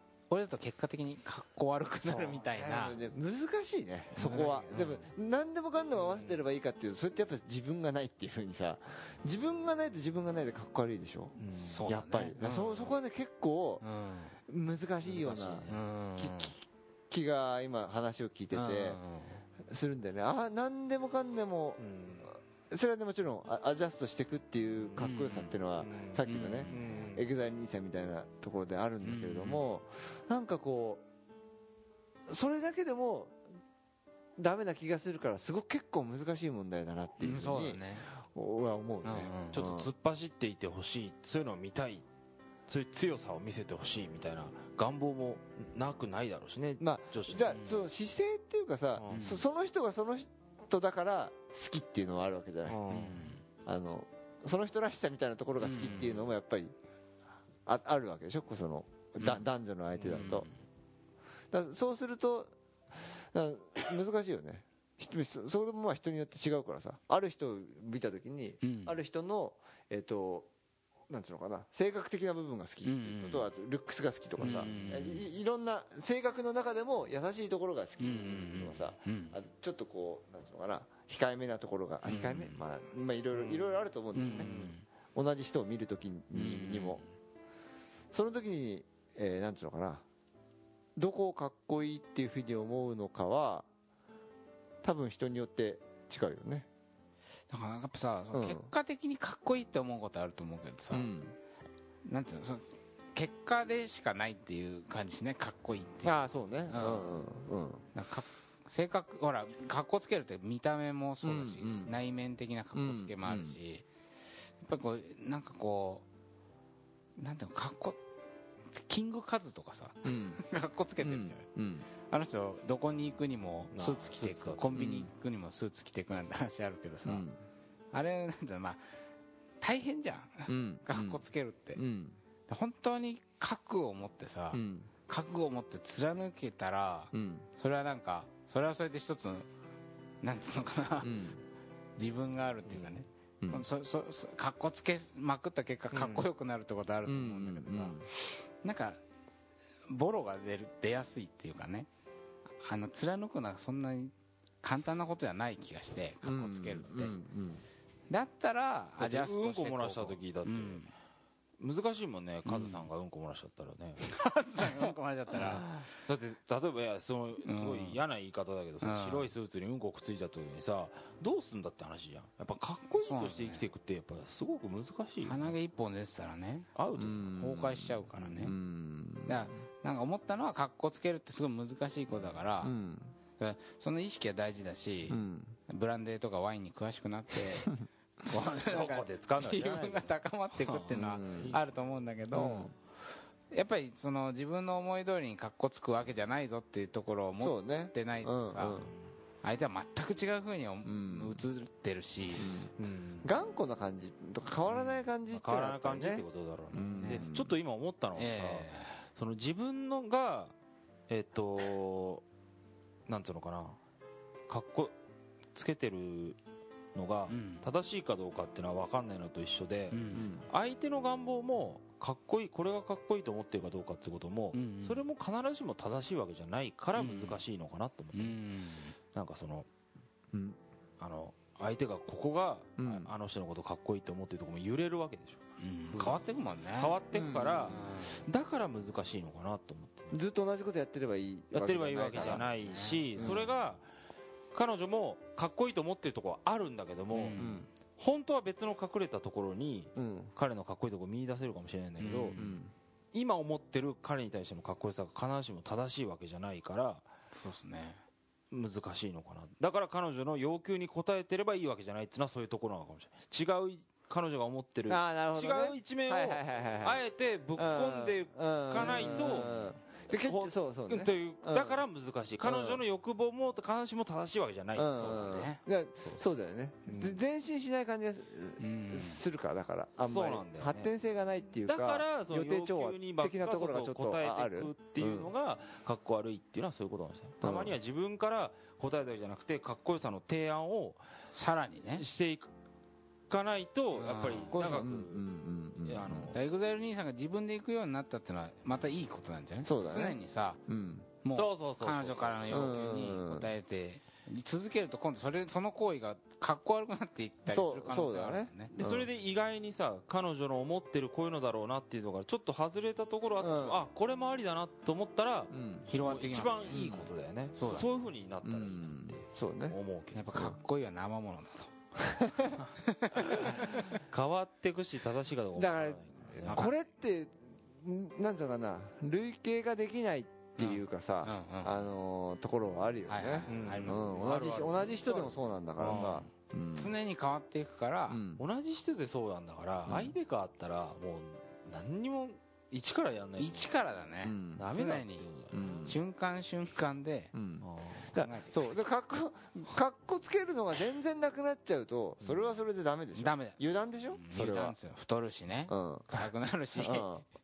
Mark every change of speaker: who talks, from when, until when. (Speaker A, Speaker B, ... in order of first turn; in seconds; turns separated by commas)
Speaker A: 0.3-3.0, Speaker B: 2.0-13.8, Speaker A: 4.2-5.0, Speaker C: 11.4-11.9, Speaker A: 11.5-12.9, Speaker A: 13.8-14.4, Speaker B: 14.5-19.0, Speaker C: 15.0-15.8, Speaker A: 15.7-16.5, Speaker A: 18.5-19.4, Speaker B: 19.6-21.8, Speaker C: 21.8-22.3, Speaker B: 22.7-31.0, Speaker A: 25.0-25.6, Speaker C: 25.8-27.3, Speaker A: 26.2-26.9, Speaker A: 29.0-29.6, Speaker B: 32.3-33.4, Speaker B: 34.4-39.9, Speaker A: 37.2-38.1, Speaker A: 39.0-39.6, Speaker C: 39.5-42.0, Speaker C: 42.7-47.5, Speaker B: 46.8-52.8, Speaker A: 47.5-47.8, Speaker C: 49.0-49.3, Speaker A: 49.1-49.4, Speaker C: 52.7-53.2, Speaker A: 52.9-53.4, Speaker B: 53.6-56.7, Speaker A: 55.6-56.2, Speaker B: 57.6-60.5, Speaker A: 60.0-60.5, Speaker B: 61.5-70.5, Speaker A: 68.6-68.9, Speaker B: 71.1-84.5, Speaker A: 72.8-73.5, Speaker A: 74.4-75.2, Speaker A: 78.0-79.4, Speaker A: 82.0-82.6, Speaker C: 83.3-83.7, Speaker A: 84.1-84.8, Speaker C: 84.4-84.7, Speaker B: 85.1-87.0, Speaker A: 86.3-87.0, Speaker B: 88.1-90.0, Speaker B: 91.0-93.7, Speaker B: 94.8-96.7, Speaker A: 97.5-101.1, Speaker B: 98.3-98.7, Speaker B: 100.9-101.3, Speaker A: 102.0-106.1, Speaker B: 106.0-107.8, Speaker A: 106.7-107.1, Speaker A: 107.9-113.8, Speaker B: 111.2-111.9, Speaker B: 112.7-113.6, Speaker A: 114.6-116.0, Speaker A: 117.2-118.0, Speaker A: 118.7-121.4, Speaker B: 120.0-120.4, Speaker B: 121.0-121.9, Speaker A: 122.0-127.2, Speaker C: 123.7-125.1, Speaker B: 127.0-127.4, Speaker A: 127.9-128.8, Speaker A: 129.6-131.8, Speaker B: 130.5-131.2, Speaker B: 131.7-132.2, Speaker A: 132.5-139.5, Speaker B: 134.5-134.9, Speaker B: 137.1-137.5, Speaker A: 140.2-141.2, Speaker B: 141.0-141.4, Speaker A: 142.0-149.0, Speaker B: 143.4-143.7, Speaker C: 145.9-146.2, Speaker B: 147.0-148.1, Speaker A: 149.9-151.9, Speaker A: 152.6-157.2, Speaker B: 156.2-157.6, Speaker A: 158.1-160.9, Speaker C: 159.0-160.8, Speaker C: 161.6-164.1, Speaker A: 162.4-162.9, Speaker A: 164.0-165.8, Speaker C: 166.0-175.5, Speaker A: 167.4-168.0, Speaker A: 168.8-169.3, Speaker A: 173.0-173.6, Speaker A: 175.2-176.7, Speaker C: 176.8-177.4, Speaker B: 177.0-179.6, Speaker A: 177.4-178.5, Speaker A: 179.2-182.7, Speaker B: 182.6-183.1, Speaker A: 183.4-192.7, Speaker B: 185.1-185.6, Speaker C: 188.5-191.6, Speaker B: 190.9-191.6, Speaker B: 192.3-192.7, Speaker A: 193.5-198.8, Speaker B: 197.4-198.9, Speaker A: 199.4-202.6, Speaker B: 200.8-201.4, Speaker B: 202.4-202.7, Speaker C: 202.8-203.3, Speaker B: 203.2-207.6, Speaker C: 204.7-210.5, Speaker A: 208.2-208.9, Speaker C: 211.1-212.2, Speaker C: 213.1-213.8, Speaker C: 214.5-214.9, Speaker C: 215.5-216.4, Speaker C: 216.9-228.4, Speaker A: 217.3-217.6, Speaker A: 219.9-220.3, Speaker B: 220.1-220.5, Speaker A: 224.5-225.1, Speaker A: 227.0-227.4, Speaker A: 228.1-228.9, Speaker C: 229.1-229.7, Speaker B: 230.3-230.6, Speaker C: 231.0-236.2, Speaker B: 232.8-233.1, Speaker A: 235.6-237.0, Speaker C: 236.8-240.2, Speaker B: 237.1-237.8, Speaker A: 237.7-238.2, Speaker B: 240.1-242.5, Speaker C: 241.5-243.8, Speaker A: 242.2-243.1, Speaker B: 243.1-243.6, Speaker C: 244.5-252.5, Speaker A: 247.1-247.6, Speaker B: 247.3-247.7, Speaker B: 249.9-250.3, Speaker A: 252.0-252.4, Speaker B: 252.3-252.7, Speaker C: 253.1-257.0, Speaker A: 257.4-258.0, Speaker C: 258.5-275.5, Speaker B: 264.9-267.0, Speaker B: 267.6-271.8, Speaker B: 272.4-272.8, Speaker B: 274.7-285.3, Speaker A: 274.9-275.6, Speaker C: 276.9-277.2, Speaker A: 278.6-279.2, Speaker C: 280.0-280.9, Speaker C: 281.7-291.0, Speaker B: 287.4-287.8, Speaker A: 291.3-292.1, Speaker C: 291.9-292.5, Speaker C: 293.3-295.2, Speaker A: 293.9-294.6, Speaker B: 294.5-296.3, Speaker C: 295.8-296.4, Speaker A: 296.3-300.6, Speaker B: 299.6-301.1, Speaker A: 301.2-308.7, Speaker C: 301.3-302.9, Speaker B: 302.5-303.5, Speaker B: 307.5-309.1, Speaker C: 308.7-320.5, Speaker B: 313.4-313.8, Speaker B: 315.5-315.9, Speaker A: 315.9-317.9, Speaker B: 318.4-319.8, Speaker A: 320.1-321.7, Speaker B: 322.0-322.6, Speaker A: 322.8-323.9, Speaker C: 323.2-326.7, Speaker B: 325.5-336.9, Speaker A: 330.6-331.8, Speaker A: 333.1-334.5, Speaker C: 333.5-336.2, Speaker A: 335.9-338.2, Speaker B: 338.1-338.4, Speaker C: 338.4-343.7, Speaker B: 339.9-340.1, Speaker A: 343.4-345.3, Speaker B: 344.2-344.6, Speaker C: 344.6-345.9, Speaker B: 345.5-346.0, Speaker A: 345.9-347.3, Speaker B: 347.3-354.7, Speaker C: 347.6-348.1, Speaker A: 348.1-348.8, Speaker C: 352.2-352.5, Speaker A: 353.1-353.6, Speaker A: 354.1-357.2, Speaker B: 355.7-357.2